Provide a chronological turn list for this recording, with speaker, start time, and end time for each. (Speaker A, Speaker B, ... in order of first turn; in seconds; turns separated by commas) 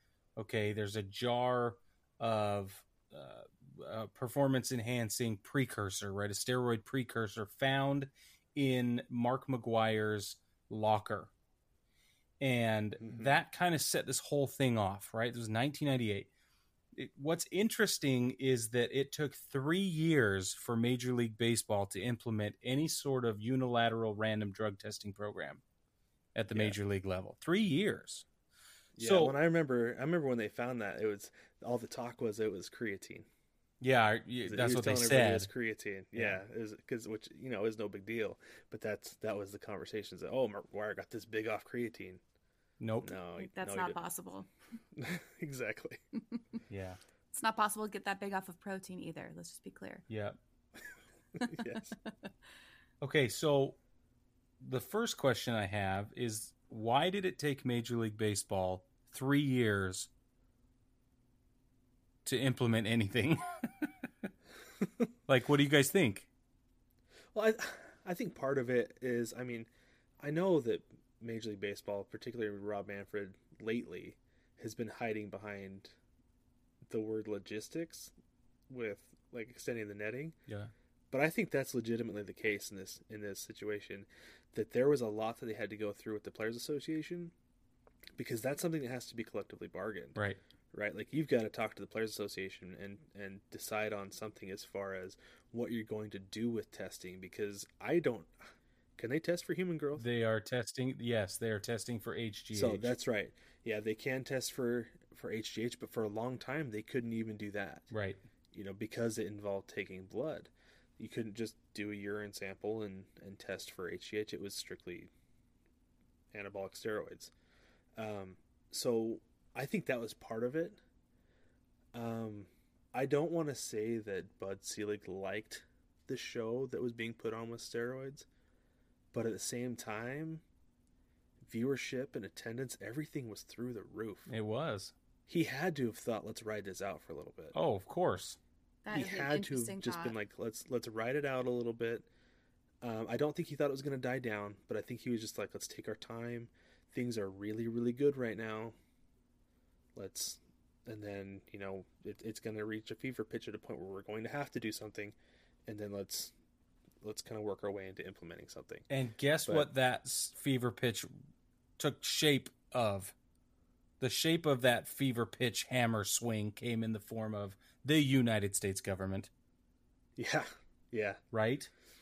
Speaker A: 0.4-11.3, Speaker A: 12.4-16.3, Speaker B: 13.0-13.3, Speaker A: 16.9-25.6, Speaker A: 26.3-28.2, Speaker B: 28.9-33.3, Speaker A: 29.0-29.4, Speaker A: 33.8-35.5, Speaker B: 34.5-42.2, Speaker A: 36.1-36.4, Speaker A: 42.8-43.1, Speaker B: 43.0-44.0, Speaker C: 43.4-44.5, Speaker B: 45.0-46.0, Speaker A: 46.7-47.0, Speaker C: 47.3-50.0, Speaker A: 50.1-50.4, Speaker C: 51.4-51.7, Speaker B: 51.4-51.9, Speaker A: 53.0-53.8, Speaker A: 54.6-60.1, Speaker A: 62.2-63.9, Speaker A: 65.3-66.3, Speaker B: 67.3-69.7, Speaker B: 70.2-75.9, Speaker B: 76.9-78.1, Speaker B: 78.7-80.3, Speaker B: 81.1-87.3, Speaker B: 88.2-90.2, Speaker B: 90.7-98.3, Speaker B: 99.0-100.0, Speaker A: 99.9-102.9, Speaker B: 102.5-107.9, Speaker A: 107.9-108.2, Speaker B: 108.5-115.1, Speaker B: 116.3-117.3, Speaker B: 118.0-120.8, Speaker B: 121.9-128.2, Speaker B: 129.1-130.4, Speaker B: 131.4-134.3, Speaker A: 134.3-134.9, Speaker B: 135.3-137.6, Speaker A: 137.5-138.4, Speaker C: 138.8-140.1, Speaker B: 138.9-142.1, Speaker B: 142.8-148.7, Speaker B: 149.9-155.1, Speaker B: 155.7-156.3, Speaker B: 157.0-158.8, Speaker A: 158.9-161.1, Speaker A: 161.8-163.1, Speaker A: 164.0-169.3, Speaker B: 170.2-171.2, Speaker A: 171.3-171.7